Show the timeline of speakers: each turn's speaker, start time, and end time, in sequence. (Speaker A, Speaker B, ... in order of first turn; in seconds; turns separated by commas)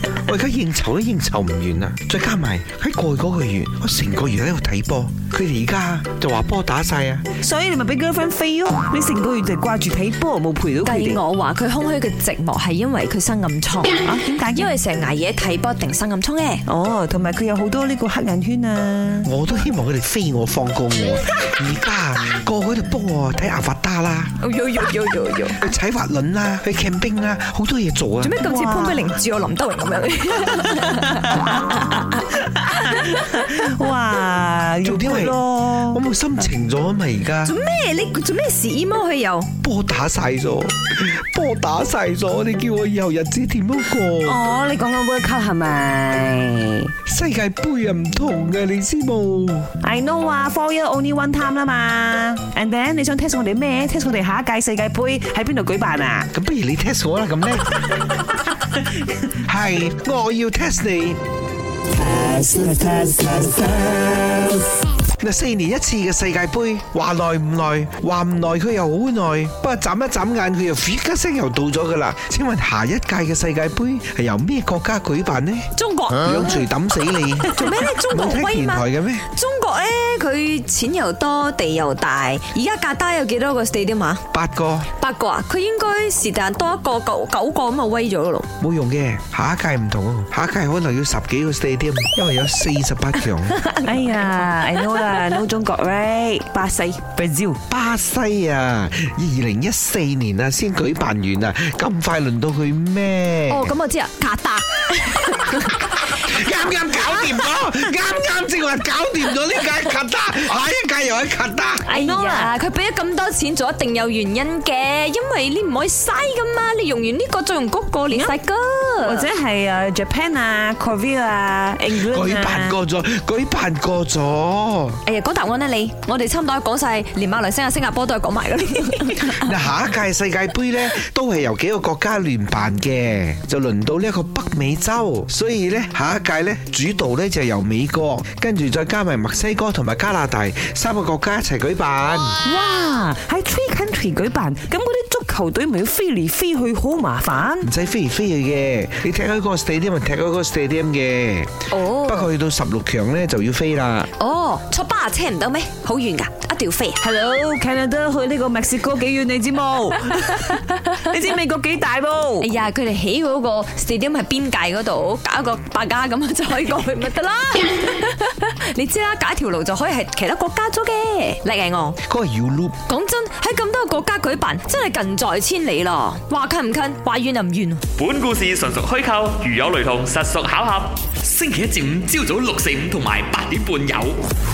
Speaker A: 0.1-7.2, Speaker B: 7.4-11.2, Speaker C: 10.8-16.6, Speaker B: 14.0-14.7, Speaker B: 16.6-19.3, Speaker A: 19.2-24.3, Speaker C: 24.4-25.7, Speaker A: 25.6-28.3, Speaker C: 28.2-33.5, Speaker B: 28.4-29.1, Speaker B: 31.1-31.4, Speaker B: 32.5-36.0, Speaker A: 34.8-37.5, Speaker C: 37.4-39.5, Speaker A: 39.6-44.4, Speaker B: 44.2-46.9, Speaker A: 47.0-49.7, Speaker B: 49.8-56.3, Speaker A: 56.3-57.8, Speaker A: 59.3-61.2, Speaker B: 62.0-64.6, Speaker A: 65.2-79.2, Speaker C: 75.8-76.7, Speaker C: 77.4-84.2, Speaker A: 84.3-84.9, Speaker C: 85.0-88.5, Speaker A: 88.6-93.6, Speaker B: 93.8-97.6, Speaker A: 97.7-103.7, Speaker C: 103.5-105.9, Speaker A: 106.0-111.8, Speaker C: 107.2-107.5, Speaker B: 111.8-112.5, Speaker C: 111.9-119.3, Speaker B: 118.1-118.4, Speaker B: 119.0-122.8, Speaker A: 121.9-125.0, Speaker C: 125.0-129.6, Speaker A: 129.2-142.4, Speaker B: 142.4-147.7, Speaker A: 147.6-154.1, Speaker C: 151.7-152.3, Speaker C: 154.2-157.0, Speaker B: 157.0-162.5, Speaker C: 162.4-172.0, Speaker A: 172.0-172.8, Speaker C: 172.9-177.8, Speaker D: 178.0-184.2